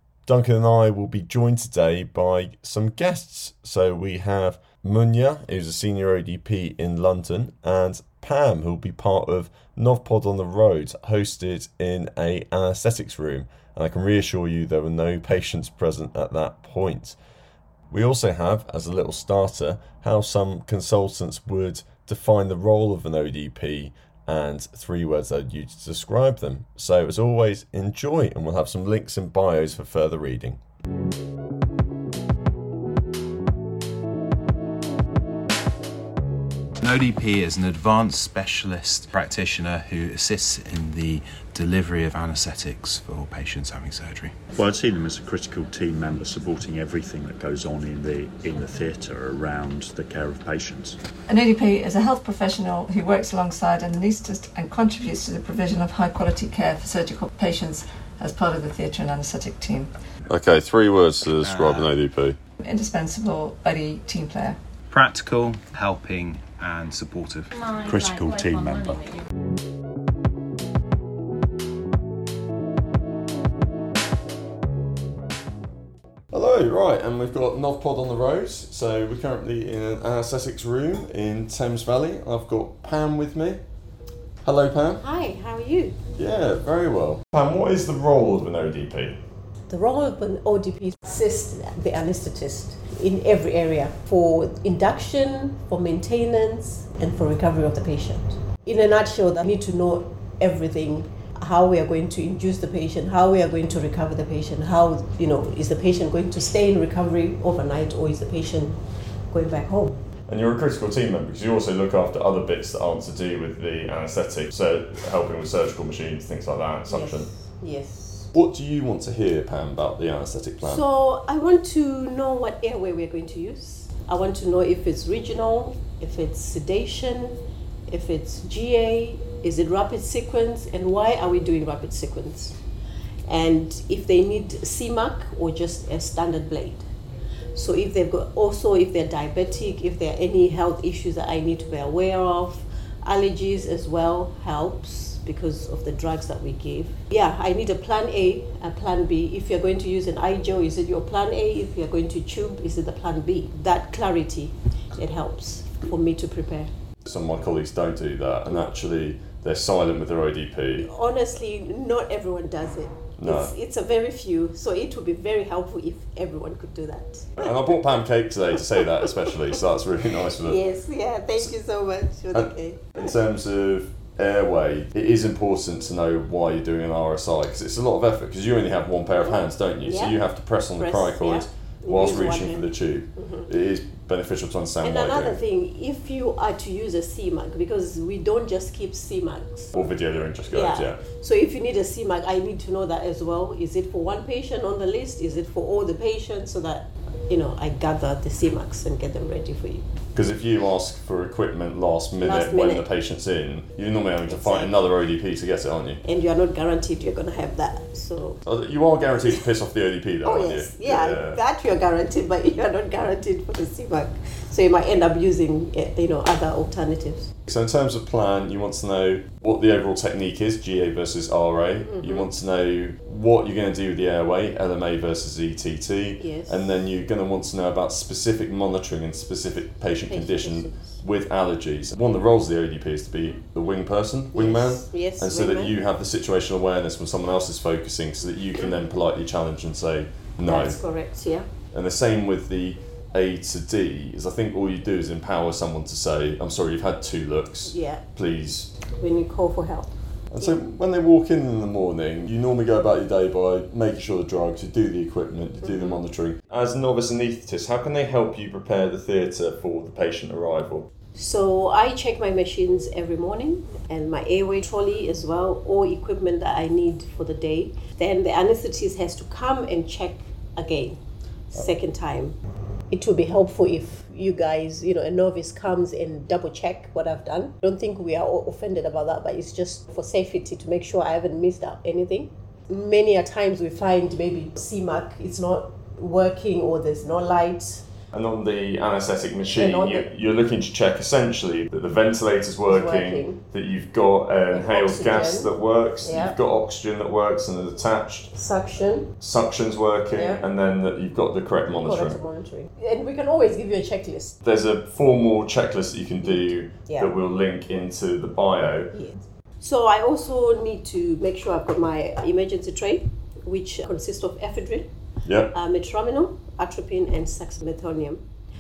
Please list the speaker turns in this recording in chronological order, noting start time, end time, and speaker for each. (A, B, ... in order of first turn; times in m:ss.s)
0:00.3-0:17.2 A
0:17.9-0:30.6 A
0:36.8-0:44.4 B
0:44.5-0:51.0 C
0:51.3-0:59.9 D
1:00.3-1:02.4 A
1:01.4-1:02.0 B
1:02.6-1:04.6 D
1:04.9-1:09.1 B
1:07.8-1:08.6 C
1:16.3-1:23.6 A
1:24.4-1:25.0 A
1:25.0-1:26.0 E
1:26.2-1:29.2 A
1:29.7-1:50.0 E
1:50.3-1:57.3 A
1:56.9-1:58.3 E
1:58.3-2:00.8 A
2:00.6-2:12.6 E
2:13.3-2:16.9 E
2:17.5-2:36.7 E
2:37.0-2:40.9 A
2:40.8-2:47.6 E
2:43.2-2:43.5 A
2:47.4-2:50.6 A
2:50.4-2:53.2 E
2:52.3-3:05.4 A
2:59.2-3:03.5 E
3:04.8-3:09.8 E
3:09.7-3:11.0 A
3:10.5-3:19.9 E
3:20.2-3:26.0 A
3:22.2-3:22.9 E
3:24.3-3:24.7 E
3:26.0-3:28.4 E
3:28.4-3:31.4 A
3:30.2-3:37.3 E
3:37.5-4:00.8 A
3:41.8-3:42.3 E
3:46.2-3:46.8 E
3:50.1-3:51.0 E
3:54.3-3:55.7 E
4:00.4-4:01.5 E
4:01.7-4:08.7 A
4:07.6-4:08.0 E
4:08.9-4:10.6 E
4:10.3-4:20.9 A
4:15.6-4:16.0 E
4:21.1-4:31.0 E
4:31.5-4:32.4 E
4:32.9-4:47.9 E
4:48.1-4:58.3 A
4:49.6-4:50.1 E
4:52.7-4:53.4 E
4:54.5-4:56.4 E
4:58.3-4:59.1 E
4:59.2-5:02.2 A
5:00.1-5:00.4 E
5:01.7-5:04.4 E
5:04.4-5:08.9 A
5:06.2-5:07.2 E
5:08.9-5:14.9 E
5:15.2-5:15.5 A
5:15.5-5:18.2 E